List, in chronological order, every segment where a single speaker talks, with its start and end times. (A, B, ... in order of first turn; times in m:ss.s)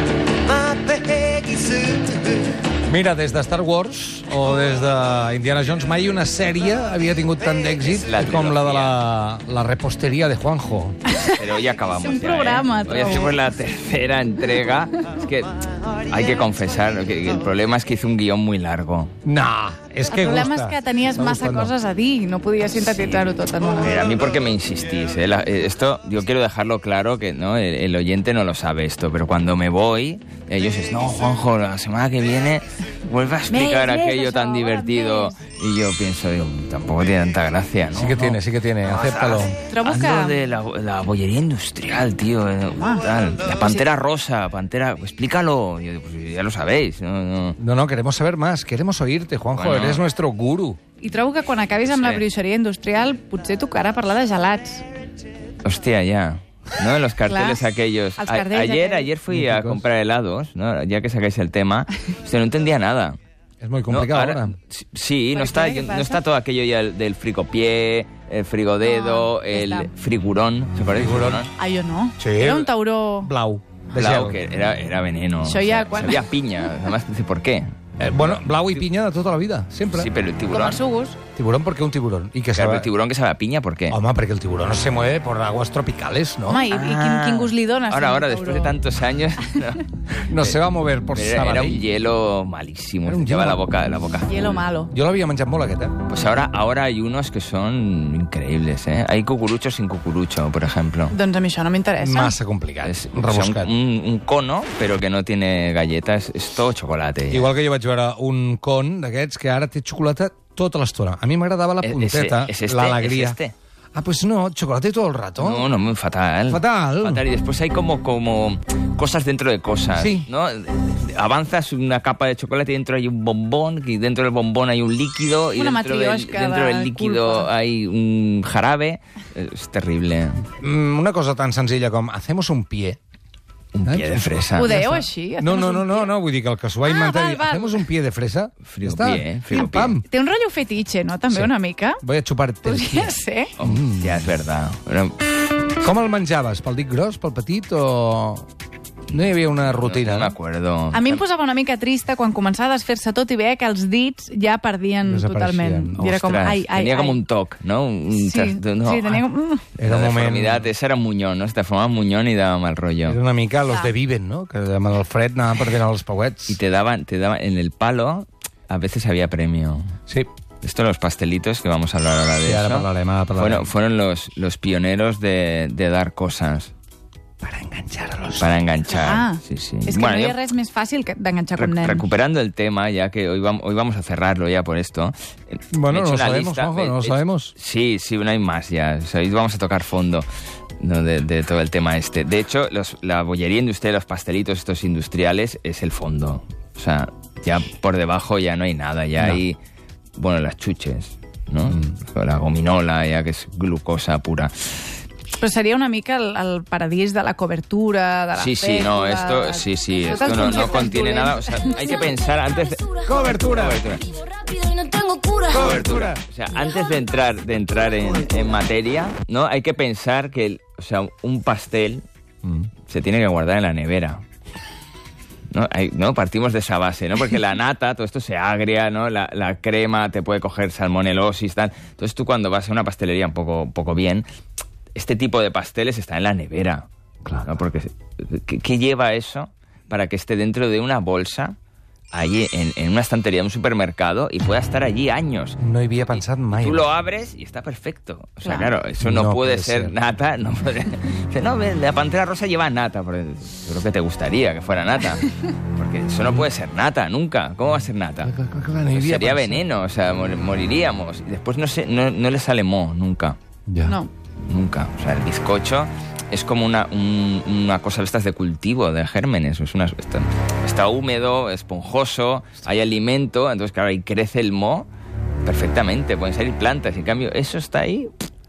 0:00.4-0:02.6 A
0:02.8-0:11.0 B
0:07.8-0:09.0 C
0:11.1-0:13.4 D
0:11.3-0:19.2 C
0:19.2-0:21.7 B
0:20.1-0:24.1 D
0:22.7-0:47.6 C
0:33.5-0:35.4 D
0:37.9-0:39.6 B
0:39.7-0:40.4 D
0:42.7-0:43.8 D
0:47.6-0:50.8 B
0:49.6-0:50.0 C
0:51.0-0:54.8 D
0:51.8-0:52.2 C
0:55.6-1:03.2 C
0:57.2-0:57.6 D
0:58.2-0:59.1 D
0:59.3-0:59.8 B
1:03.6-1:04.6 B
1:03.9-1:11.5 C
1:05.3-1:06.2 D
1:08.8-1:09.9 D
1:10.9-1:11.4 B
1:11.6-1:13.3 D
1:12.2-1:14.4 B
1:13.9-1:18.8 C
1:15.4-1:16.2 D
1:18.0-1:20.1 B
1:19.9-1:20.8 C
1:20.5-1:21.2 D
1:21.3-1:22.9 B
1:22.6-1:24.0 C
1:23.9-1:26.7 B
1:26.5-1:28.7 D
1:26.7-1:30.6 C
1:30.3-1:31.8 B
1:31.1-1:34.6 C
1:33.0-1:33.6 B
1:34.2-1:34.9 D
1:34.9-1:36.0 B
1:36.1-1:41.2 C
1:41.1-1:42.3 D
1:42.0-1:43.7 B
1:42.8-1:47.5 C
1:47.3-1:53.4 B
1:51.8-1:53.5 C
1:53.9-1:55.7 B
1:55.4-2:10.4 C
1:56.5-1:57.2 B
1:59.9-2:00.3 B
2:05.5-2:07.5 D
2:10.5-2:13.0 B
2:13.7-2:14.8 C
2:13.8-2:20.0 B
2:14.6-2:16.1 D
2:16.8-2:17.8 D
2:18.7-2:20.0 C
2:19.9-2:22.0 D
2:21.3-2:24.3 B
2:22.6-2:23.5 D
2:23.6-2:25.2 C
2:25.8-2:28.4 B
2:29.1-2:30.3 B
2:29.7-2:31.2 C
2:30.9-2:37.2 D
2:35.0-2:36.0 B
2:35.9-2:39.2 C
2:38.1-2:39.7 D
2:39.8-2:40.7 B
2:39.8-2:43.2 C
2:43.1-2:46.6 B
2:46.5-2:49.9 C
2:50.6-2:56.7 C
2:52.4-2:53.7 B
2:57.4-2:58.5 B
2:58.4-3:00.4 C
2:58.9-3:02.0 D
3:01.6-3:10.2 C
3:05.7-3:07.5 B
3:10.8-3:19.6 C
3:19.2-3:19.4 B
3:20.2-3:24.8 C
3:21.7-3:21.9 B
3:25.4-3:32.1 D
3:28.4-3:34.2 C
3:33.0-3:33.8 B
3:34.3-3:35.4 A
3:35.4-3:36.2 B
3:35.5-3:42.0 C
3:42.4-3:42.7 B
3:42.9-3:44.2 C
3:45.5-3:54.2 C
3:54.9-3:56.9 C
3:57.2-3:57.6 B
3:57.4-4:01.6 C
4:02.1-4:05.6 C
4:05.6-4:06.9 B
4:06.2-4:18.3 C
4:08.4-4:08.7 D
4:09.0-4:09.9 B
4:18.2-4:19.6 B
4:18.9-4:23.4 C
4:23.7-4:24.0 B
4:23.9-4:24.1 D
4:24.5-4:34.9 C
4:35.4-4:38.1 C